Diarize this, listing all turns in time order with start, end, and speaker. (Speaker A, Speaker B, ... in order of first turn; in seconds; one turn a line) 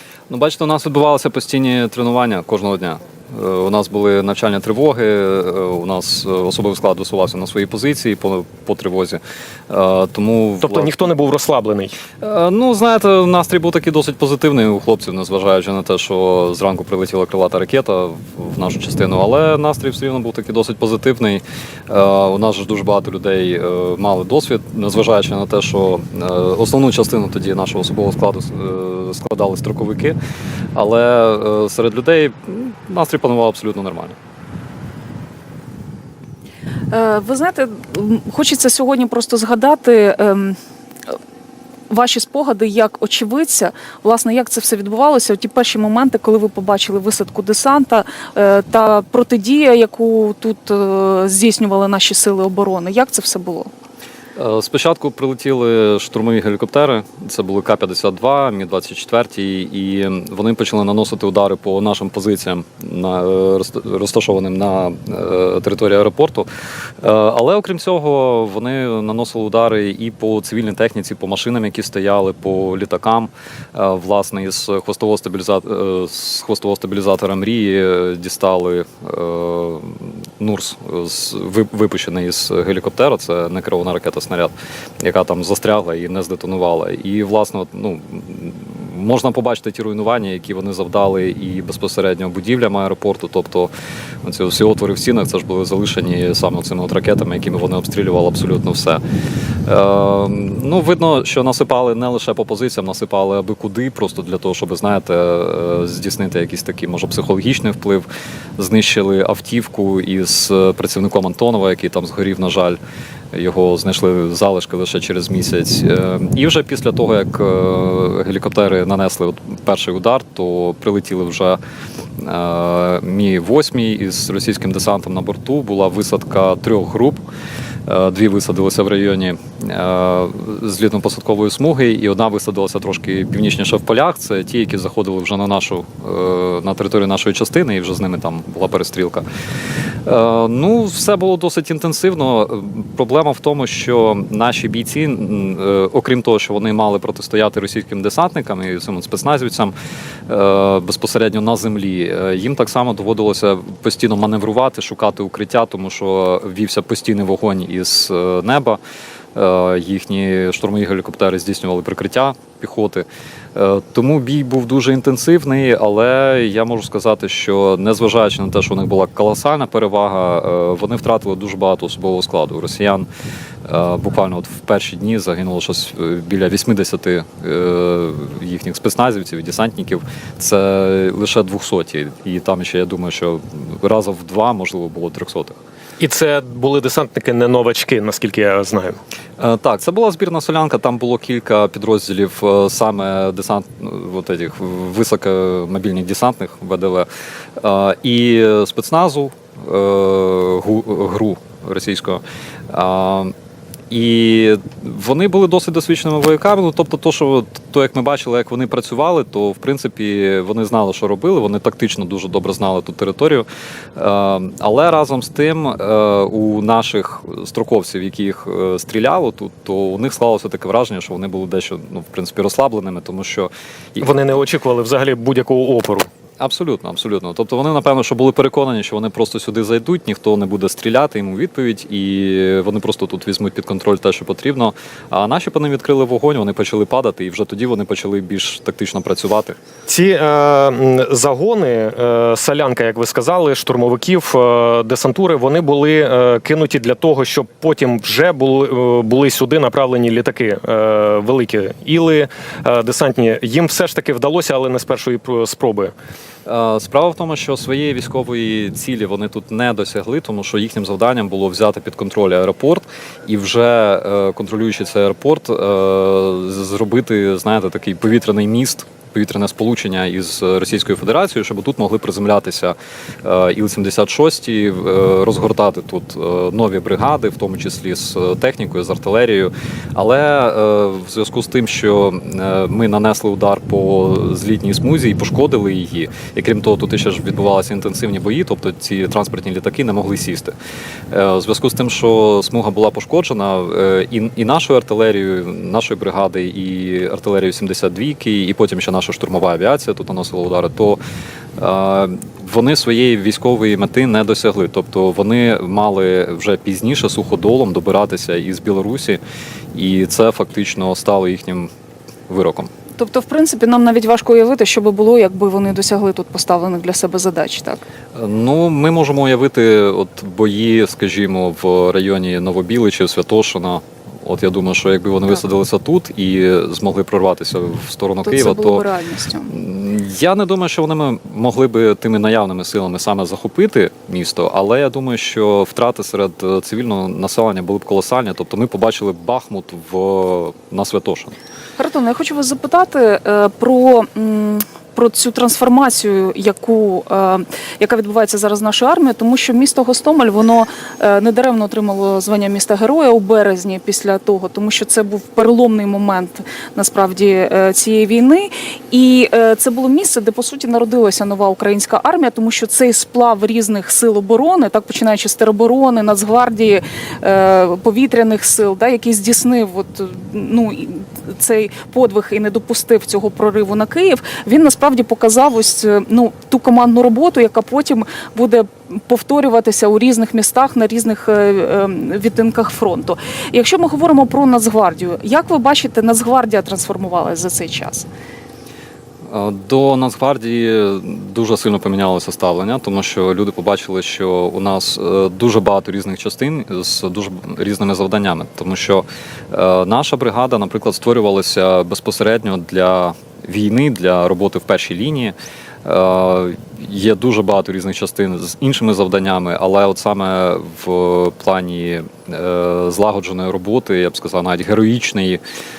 Speaker A: 0.3-10.9
Speaker B: 10.6-12.0
Speaker A: 12.2-30.2
Speaker A: 30.8-34.2
Speaker C: 36.9-40.6
Speaker C: 41.9-53.7
Speaker A: 54.4-66.5
Speaker A: 67.0-93.7
Speaker A: 94.2-99.0
Speaker A: 99.7-112.8
Speaker A: 113.3-121.6
Speaker A: 122.2-127.2
Speaker A: 127.9-139.2
Speaker A: 140.1-149.7
Speaker A: 150.3-158.8
Speaker A: 159.3-173.1
Speaker A: 173.7-185.6
Speaker B: 186.0-189.0
Speaker A: 189.4-197.1
Speaker A: 197.6-203.3
Speaker A: 203.9-224.1
Speaker B: 224.0-226.1
Speaker A: 226.4-239.6
Speaker B: 239.9-255.9
Speaker A: 256.5-290.6
Speaker A: 291.1-301.0
Speaker A: 301.6-309.2
Speaker A: 309.7-311.7
Speaker A: 312.3-312.7
Speaker C: 313.0-317.8
Speaker A: 318.1-328.8
Speaker C: 328.2-329.5
Speaker A: 329.5-341.3
Speaker C: 341.8-388.1
Speaker A: 389.3-415.4